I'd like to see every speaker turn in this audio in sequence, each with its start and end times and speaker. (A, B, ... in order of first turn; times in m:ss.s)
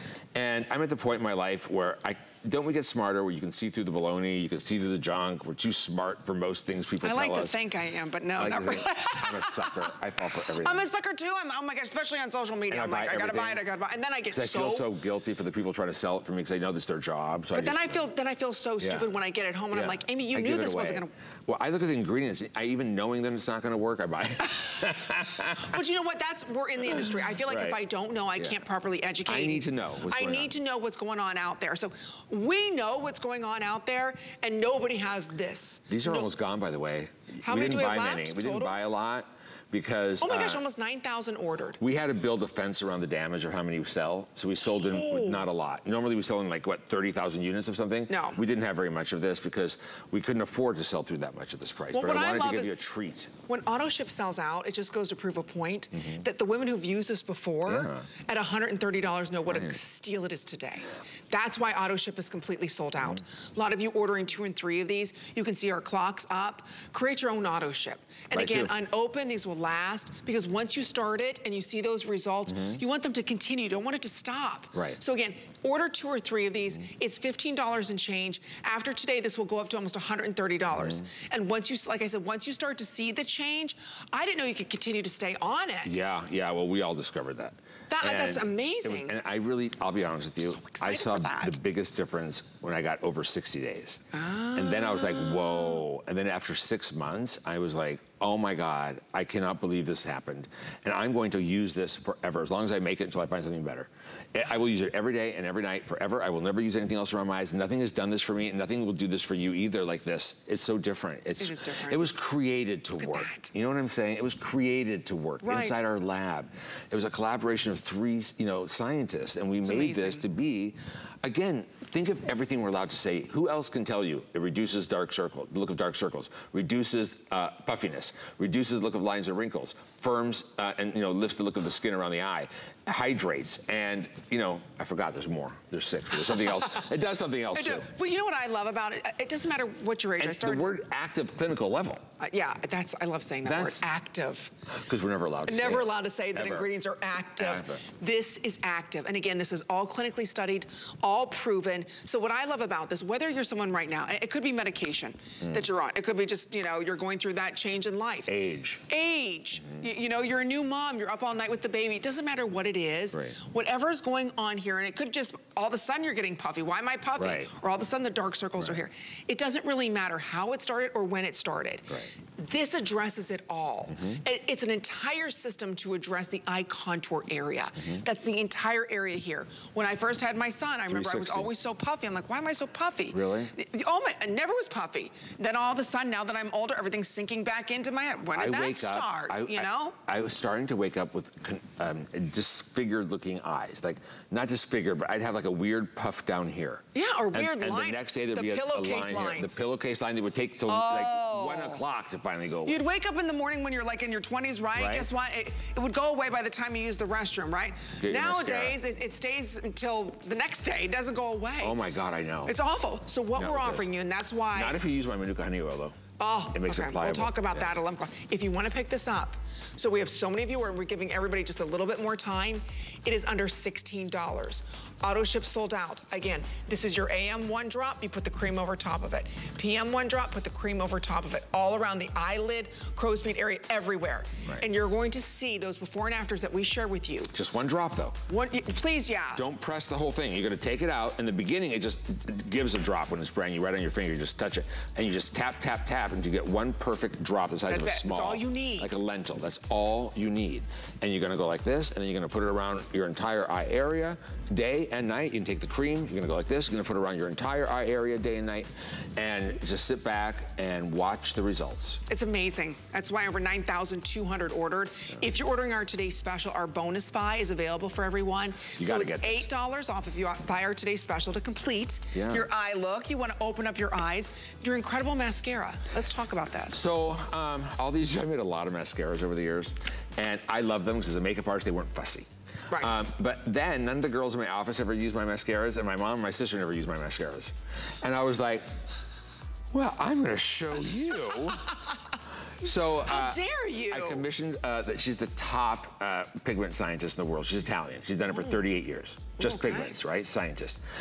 0:00.3-0:07.6 A
0:07.0-0:09.9 B
0:08.4-0:10.8 A
0:10.6-0:14.9 B
0:12.7-0:13.6 A
0:14.3-0:18.0 A
0:17.5-0:21.1 B
0:18.8-0:19.1 A
0:19.7-0:25.7 A
0:25.6-0:36.3 B
0:26.9-0:27.8 A
0:29.2-0:30.5 A
0:35.9-0:40.6 A
0:37.4-0:38.8 B
0:40.2-0:41.8 B
0:41.8-0:53.3 A
0:44.7-0:45.4 B
0:48.1-0:48.4 B
0:51.9-0:52.8 B
0:53.4-1:26.0 B
0:55.9-0:56.2 A
0:57.6-0:58.1 A
0:59.4-0:59.8 A
1:08.3-1:08.7 A
1:12.5-1:12.8 A
1:14.7-1:15.0 A
1:20.7-1:21.0 A
1:25.8-1:34.0 A
1:27.9-1:29.2 B
1:30.4-1:31.6 B
1:34.1-1:35.7 B
1:34.5-2:17.9 A
1:51.4-1:52.1 B
1:53.0-1:53.5 B
1:55.4-1:55.8 B
1:59.6-2:00.2 B
2:16.3-2:16.8 B
2:17.5-2:20.7 B
2:20.2-2:22.1 A
2:22.2-2:24.5 B
2:23.4-2:23.8 A
2:24.7-2:26.7 A
2:25.5-2:38.3 B
2:27.4-2:27.8 A
2:38.3-2:38.8 A
2:38.9-3:09.9 B
2:47.2-2:47.5 A
2:53.9-2:54.2 A
3:00.9-3:01.5 A
3:03.1-3:03.5 A
3:08.3-3:22.8 A
3:16.9-3:19.6 B
3:20.7-3:21.8 B
3:22.6-3:31.8 B
3:24.7-3:25.1 A
3:28.0-3:28.8 A
3:31.6-3:32.6 A
3:32.4-3:34.8 B
3:33.4-3:33.9 A
3:34.5-3:37.7 A
3:36.2-3:57.3 B
3:57.3-3:58.2 A
3:58.3-3:59.4 B
3:59.3-4:22.0 A
4:07.7-4:09.0 B
4:22.1-4:36.8 B
4:28.8-4:29.5 A
4:32.1-4:32.5 A
4:36.7-4:48.7 A
4:42.7-4:43.0 B
4:49.7-4:51.7 A
4:52.6-5:00.8 A
4:53.0-4:54.2 B
4:59.4-4:59.9 B